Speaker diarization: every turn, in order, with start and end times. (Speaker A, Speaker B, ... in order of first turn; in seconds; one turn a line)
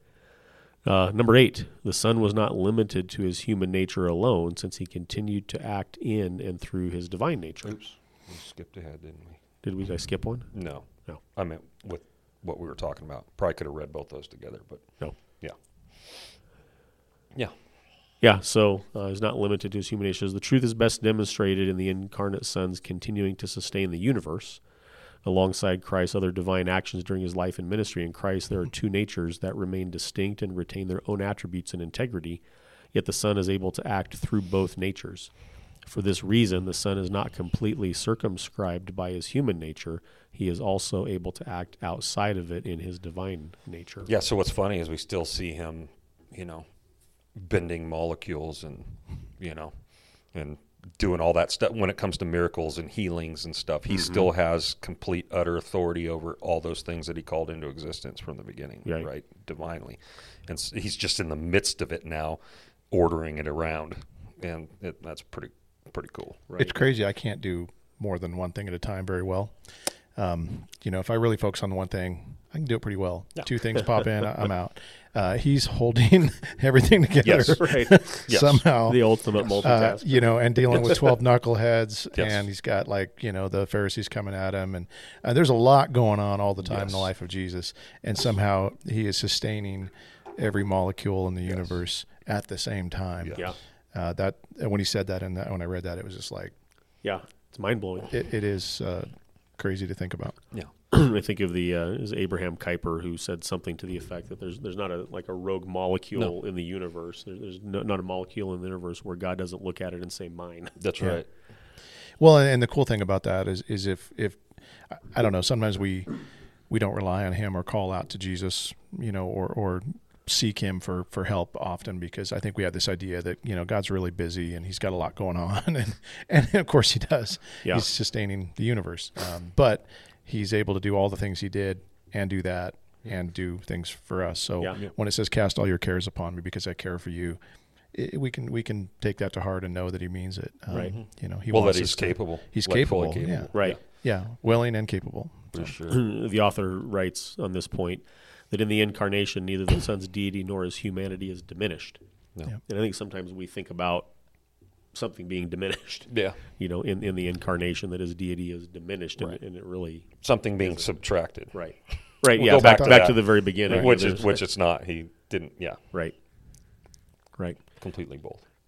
Speaker A: 0.8-7.8
Speaker B: 7.6-9.4
Speaker A: 9.6-10.5
Speaker B: 10.5-14.9
Speaker A: 18.2-24.6
Speaker A: 25.2-32.4
Speaker A: 32.9-35.3
Speaker A: 35.9-44.1
Speaker B: 44.1-46.6
Speaker B: 47.4-49.7
Speaker B: 50.3-62.4
Speaker B: 62.9-66.4
Speaker C: 66.6-79.0
Speaker B: 77.2-78.6
Speaker A: 77.4-78.0
Speaker A: 78.8-81.0
Speaker C: 79.6-96.5
Speaker B: 82.2-82.4
Speaker B: 93.2-93.5
Speaker A: 97.0-98.1
Speaker C: 98.1-100.3
Speaker A: 100.9-110.7
Speaker B: 110.8-111.2
Speaker C: 112.2-116.1
Speaker C: 116.7-137.4
Speaker C: 137.9-145.7
Speaker A: 140.7-140.9
Speaker B: 141.0-143.8
Speaker B: 145.5-146.0
Speaker A: 145.9-152.0
Speaker A: 152.7-154.1
Speaker A: 154.9-160.1
Speaker B: 156.1-156.3
Speaker B: 160.2-161.5
Speaker A: 161.5-164.4
Speaker B: 162.2-165.8
Speaker B: 167.8-168.4